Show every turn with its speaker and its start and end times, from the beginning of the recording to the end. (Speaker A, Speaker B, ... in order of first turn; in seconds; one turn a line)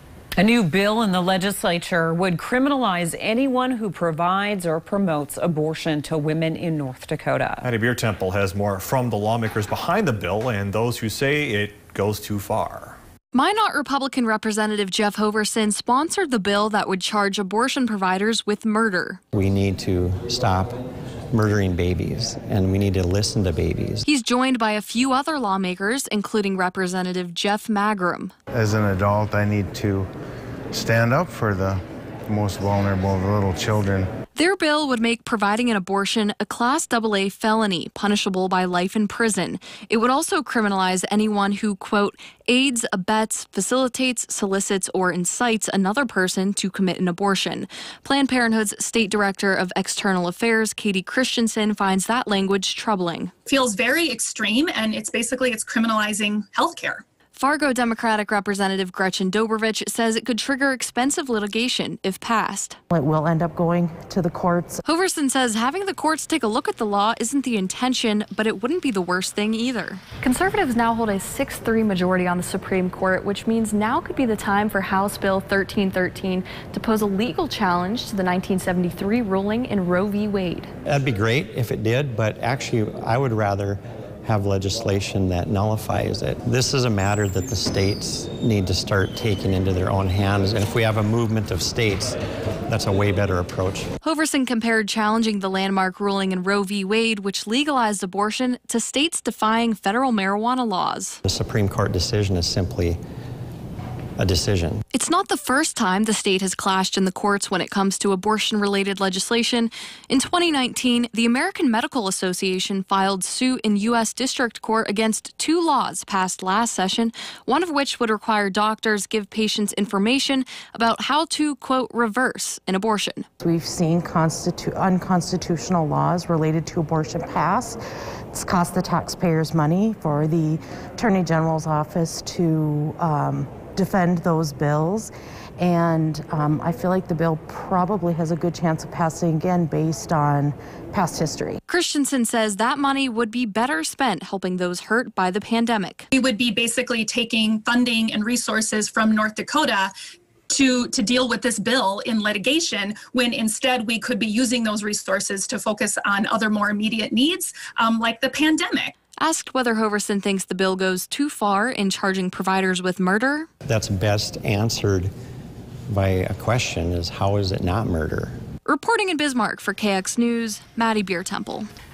Speaker A: 0.3-7.6
Speaker B: 7.6-13.0
Speaker C: 13.3-19.2
Speaker D: 19.3-24.1
Speaker C: 24.1-28.3
Speaker E: 28.5-30.1
Speaker E: 30.7-34.1
Speaker C: 34.3-53.3
Speaker F: 53.5-57.0
Speaker C: 57.3-62.8
Speaker G: 62.9-64.8
Speaker C: 64.8-80.7
Speaker D: 80.8-93.9
Speaker C: 94.0-101.2
Speaker D: 101.2-103.0
Speaker D: 104.2-104.8
Speaker C: 104.9-123.2
Speaker G: 123.4-127.8
Speaker G: 128.3-141.6
Speaker C: 141.7-146.1
Speaker F: 146.1-149.9
Speaker F: 150.5-158.9
Speaker C: 159.2-163.5
Speaker D: 163.6-165.1
Speaker D: 165.9-168.3
Speaker C: 168.6-171.7